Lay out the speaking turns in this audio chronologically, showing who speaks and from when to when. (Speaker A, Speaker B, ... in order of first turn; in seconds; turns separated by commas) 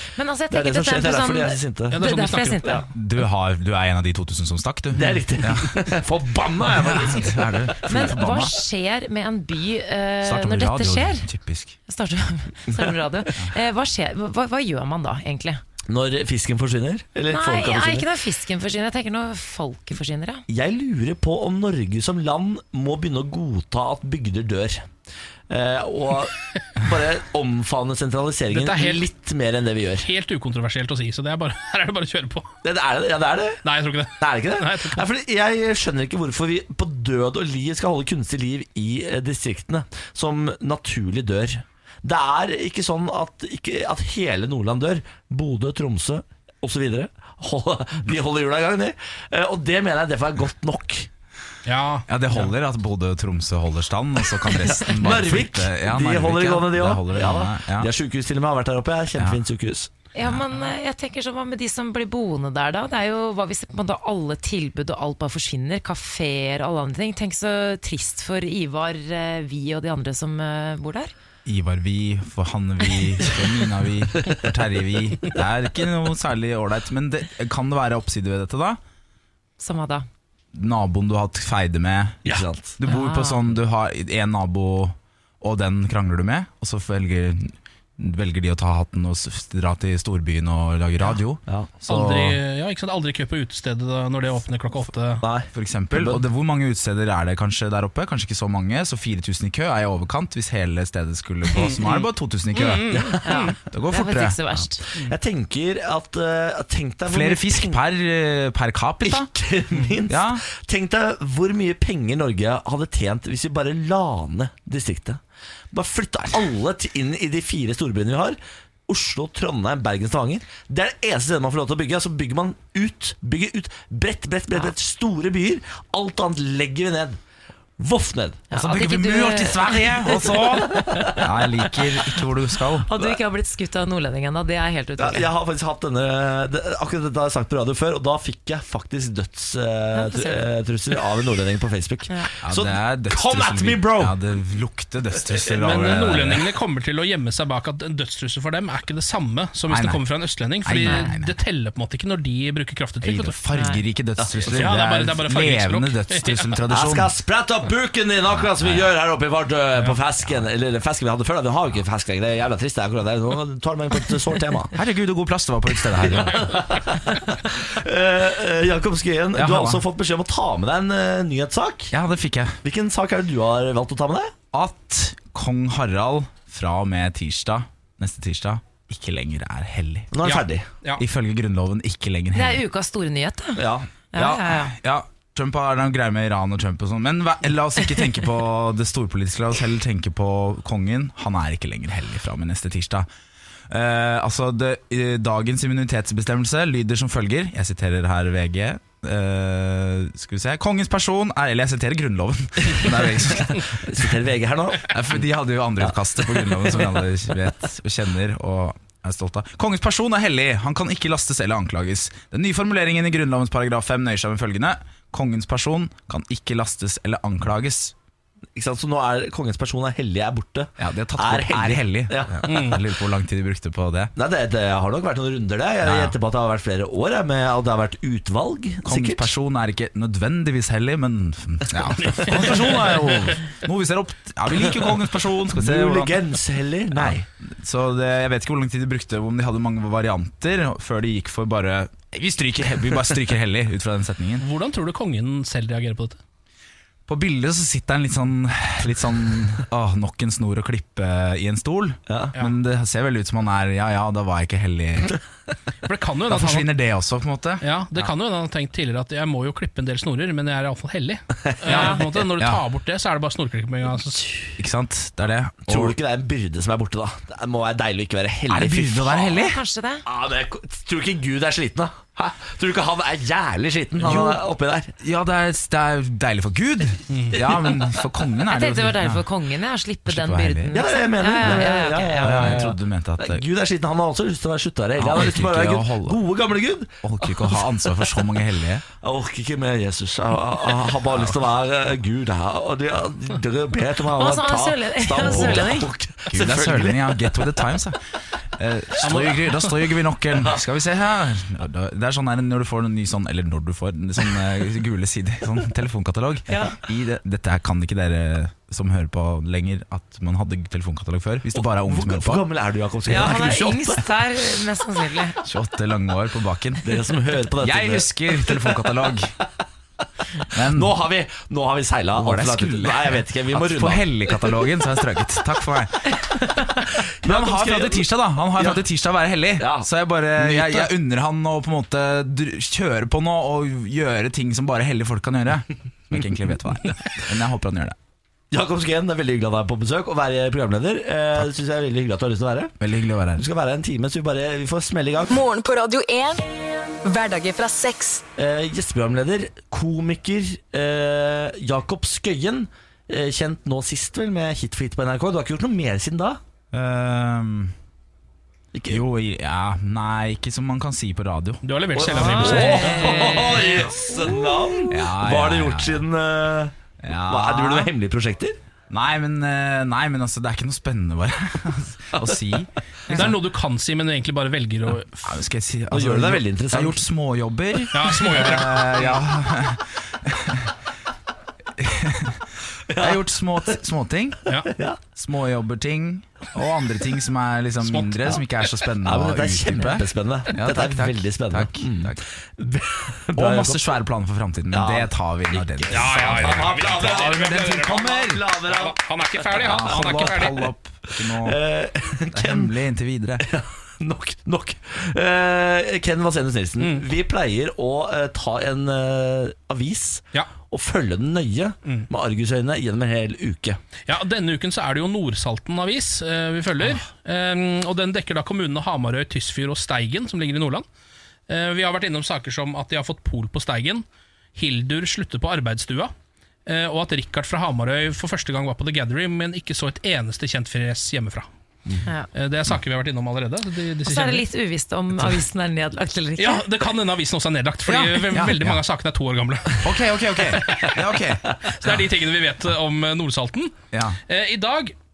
Speaker A: 0.1-2.9, Speaker B: 0.5-2.0, Speaker C: 1.9-2.8, Speaker D: 2.9-5.8, Speaker B: 4.9-7.5, Speaker D: 6.7-8.6, Speaker A: 7.8-11.3, Speaker D: 10.2-11.8, Speaker A: 11.9-15.6, Speaker B: 15.9-18.1, Speaker A: 17.3-20.4, Speaker B: 20.5-24.9, Speaker B: 25.5-30.1, Speaker C: 28.5-29.1, Speaker C: 30.0-32.5, Speaker B: 32.6-33.6, Speaker C: 33.6-35.0, Speaker B: 34.2-51.1, Speaker C: 51.6-52.5, Speaker D: 52.1-57.9, Speaker B: 54.8-59.9, Speaker D: 59.1-59.4, Speaker A: 60.1-71.1, Speaker D: 71.5-78.8, Speaker A: 79.6-80.1, Speaker D: 80.5-91.4, Speaker B: 82.3-82.8, Speaker A: 82.8-83.6, Speaker B: 91.5-92.4, Speaker C: 91.9-95.2, Speaker B: 95.2-96.3, Speaker D: 95.5-103.0, Speaker C: 101.5-103.6, Speaker B: 102.9-103.3, Speaker A: 103.2-104.9, Speaker D: 103.7-104.4, Speaker B: 104.9-107.8, Speaker D: 107.1-109.3, Speaker B: 109.0-115.2, Speaker D: 110.1-110.4, Speaker B: 115.7-127.2, Speaker B: 127.8-128.5, Speaker A: 128.5-131.0, Speaker D: 128.5-132.9, Speaker B: 130.7-131.2, Speaker A: 132.8-135.3, Speaker B: 135.0-144.2, Speaker A: 139.9-140.5, Speaker D: 142.4-146.5, Speaker C: 145.6-153.4, Speaker D: 149.7-150.0, Speaker D: 150.6-151.4, Speaker A: 150.9-151.1, Speaker D: 153.0-157.1, Speaker A: 153.5-153.8, Speaker B: 154.2-154.8, Speaker C: 154.5-156.6, Speaker B: 156.7-164.8, Speaker D: 158.3-158.9, Speaker D: 164.7-166.6, Speaker B: 166.0-171.9, Speaker D: 169.3-169.8, Speaker D: 171.9-172.6, Speaker B: 172.6-174.3, Speaker D: 174.5-180.1, Speaker B: 180.1-180.7, Speaker C: 180.2-181.0, Speaker D: 181.0-182.6, Speaker A: 182.3-184.8, Speaker B: 183.6-183.9, Speaker D: 184.2-193.1, Speaker D: 193.7-204.1, Speaker B: 203.5-204.9, Speaker D: 204.9-217.9, Speaker B: 205.8-207.0, Speaker B: 218.6-222.7, Speaker D: 220.8-224.1, Speaker C: 222.5-222.8, Speaker B: 224.2-229.3, Speaker D: 225.8-226.2, Speaker D: 228.8-236.2, Speaker C: 232.0-233.3, Speaker B: 235.5-237.3, Speaker D: 236.9-244.5, Speaker C: 244.4-246.2, Speaker D: 247.1-255.2, Speaker B: 252.1-252.3, Speaker C: 255.8-256.7, Speaker D: 256.3-258.1, Speaker C: 257.6-264.3, Speaker B: 261.5-261.9, Speaker A: 261.7-262.0, Speaker D: 264.6-266.0, Speaker B: 265.7-269.4, Speaker D: 268.5-269.6, Speaker A: 269.3-270.0, Speaker B: 270.1-274.9, Speaker D: 274.0-274.5, Speaker D: 275.0-279.3, Speaker C: 277.1-277.5, Speaker A: 278.4-282.7, Speaker D: 280.1-280.8, Speaker B: 280.7-287.0, Speaker D: 282.2-283.4, Speaker D: 285.0-286.2, Speaker D: 287.0-288.8, Speaker B: 289.0-297.6, Speaker D: 291.1-291.4, Speaker A: 294.1-295.9, Speaker D: 295.2-298.0, Speaker D: 298.6-312.5, Speaker C: 299.0-299.4, Speaker B: 306.5-306.8, Speaker B: 311.5-314.1, Speaker A: 313.1-315.4, Speaker D: 315.4-319.3, Speaker B: 316.8-318.6, Speaker B: 320.5-324.6, Speaker D: 320.5-320.9, Speaker D: 322.1-326.6, Speaker B: 326.6-328.8, Speaker D: 327.2-338.0, Speaker B: 329.6-330.9, Speaker B: 338.5-342.8, Speaker D: 342.8-343.4, Speaker B: 343.4-345.3, Speaker E: 345.3-346.4, Speaker E: 347.0-348.2, Speaker B: 348.4-356.4, Speaker D: 356.7-357.8, Speaker B: 358.7-359.0, Speaker D: 358.9-361.6, Speaker C: 361.6-363.5, Speaker B: 361.9-366.8, Speaker A: 362.1-363.9, Speaker D: 362.3-363.1, Speaker D: 364.9-366.1, Speaker D: 367.0-367.9, Speaker B: 367.3-368.6, Speaker D: 368.9-373.4, Speaker B: 372.1-372.4, Speaker C: 373.1-375.4, Speaker D: 374.9-380.7, Speaker B: 375.9-377.0, Speaker C: 377.9-379.2, Speaker D: 381.8-384.6, Speaker B: 382.9-383.8, Speaker B: 384.6-385.0, Speaker D: 385.1-392.2, Speaker C: 387.9-388.4, Speaker B: 389.0-393.9, Speaker D: 393.4-398.4, Speaker B: 394.7-400.4, Speaker C: 395.9-398.0, Speaker C: 398.6-400.7, Speaker D: 399.6-401.6, Speaker B: 401.1-402.7, Speaker D: 402.3-403.4, Speaker B: 403.4-413.8, Speaker C: 406.8-407.1, Speaker C: 414.1-420.9, Speaker C: 421.5-424.1, Speaker C: 424.6-426.1, Speaker C: 426.7-431.5, Speaker C: 432.3-434.5, Speaker A: 434.0-436.7, Speaker C: 436.4-439.9, Speaker D: 437.9-438.8, Speaker D: 439.8-442.0, Speaker C: 440.7-440.9, Speaker C: 441.7-443.8, Speaker D: 443.9-444.2, Speaker C: 444.3-444.9